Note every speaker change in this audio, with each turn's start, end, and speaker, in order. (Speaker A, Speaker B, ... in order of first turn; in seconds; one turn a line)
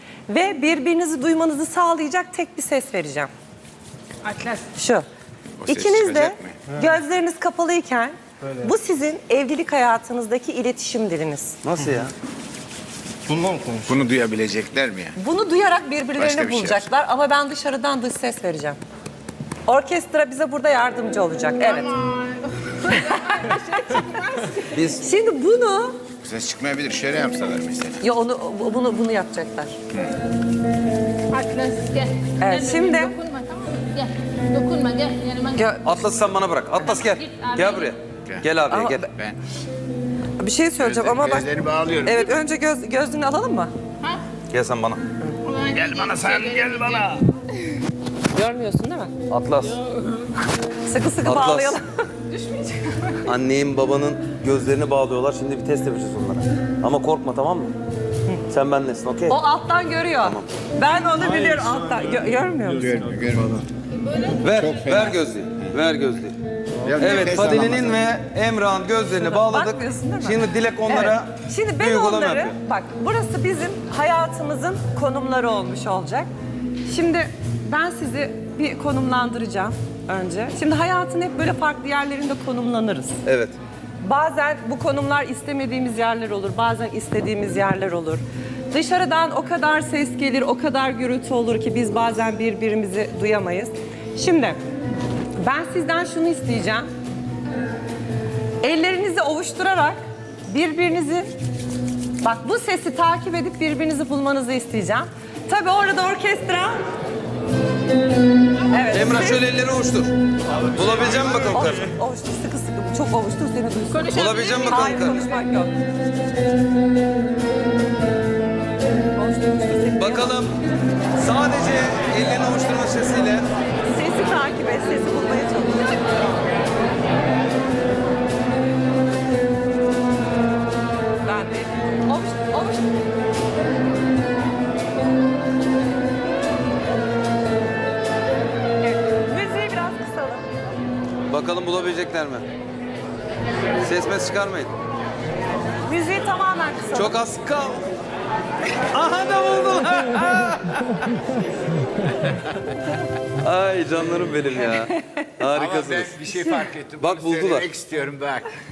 Speaker A: 0.3-3.3
Speaker B: 4.2-4.7
Speaker A: 4.8-5.1
Speaker C: 5.6-6.6
Speaker A: 5.7-11.6
Speaker D: 11.6-12.1
Speaker C: 13.6-15.2
Speaker A: 15.2-18.8
Speaker C: 16.2-16.9
Speaker A: 19.7-21.9
Speaker B: 21.6-24.8
Speaker A: 22.9-23.3
Speaker D: 24.7-25.0
Speaker A: 24.9-26.0
Speaker C: 26.2-28.0
Speaker A: 28.0-29.8
Speaker B: 31.3-35.7
Speaker A: 32.4-33.1
Speaker A: 35.6-36.0
Speaker D: 35.9-39.1
Speaker B: 36.8-37.9
Speaker A: 38.7-39.1
Speaker C: 39.1-39.4
Speaker A: 40.4-41.5
Speaker C: 40.8-42.4
Speaker A: 42.0-43.7
Speaker D: 44.5-45.0
Speaker B: 45.4-47.2
Speaker D: 45.7-47.2
Speaker A: 48.3-49.1
Speaker D: 49.3-49.8
Speaker A: 50.9-52.0
Speaker D: 51.2-51.8
Speaker B: 52.3-53.2
Speaker D: 53.2-57.7
Speaker D: 58.5-59.4
Speaker A: 59.3-63.1
Speaker D: 60.2-60.5
Speaker C: 62.8-63.6
Speaker D: 64.4-66.4
Speaker C: 64.4-65.7
Speaker C: 66.8-68.0
Speaker D: 67.0-72.5
Speaker A: 69.2-76.3
Speaker A: 76.9-83.2
Speaker D: 83.2-83.6
Speaker A: 84.0-94.6
Speaker A: 95.4-96.9
Speaker A: 98.6-101.3
Speaker A: 102.2-106.8
Speaker A: 108.7-109.4
Speaker D: 108.9-111.9
Speaker A: 111.2-115.7
Speaker B: 113.9-115.3
Speaker D: 114.1-115.3
Speaker A: 119.2-120.4
Speaker D: 120.0-120.6
Speaker D: 121.2-123.5
Speaker A: 123.8-126.0
Speaker A: 131.2-132.9
Speaker A: 138.8-140.5
Speaker D: 141.3-142.4
Speaker D: 143.8-144.7
Speaker A: 145.8-147.2
Speaker D: 146.9-147.9
Speaker D: 148.8-151.3
Speaker D: 153.4-156.2
Speaker C: 155.5-158.5
Speaker D: 157.0-157.7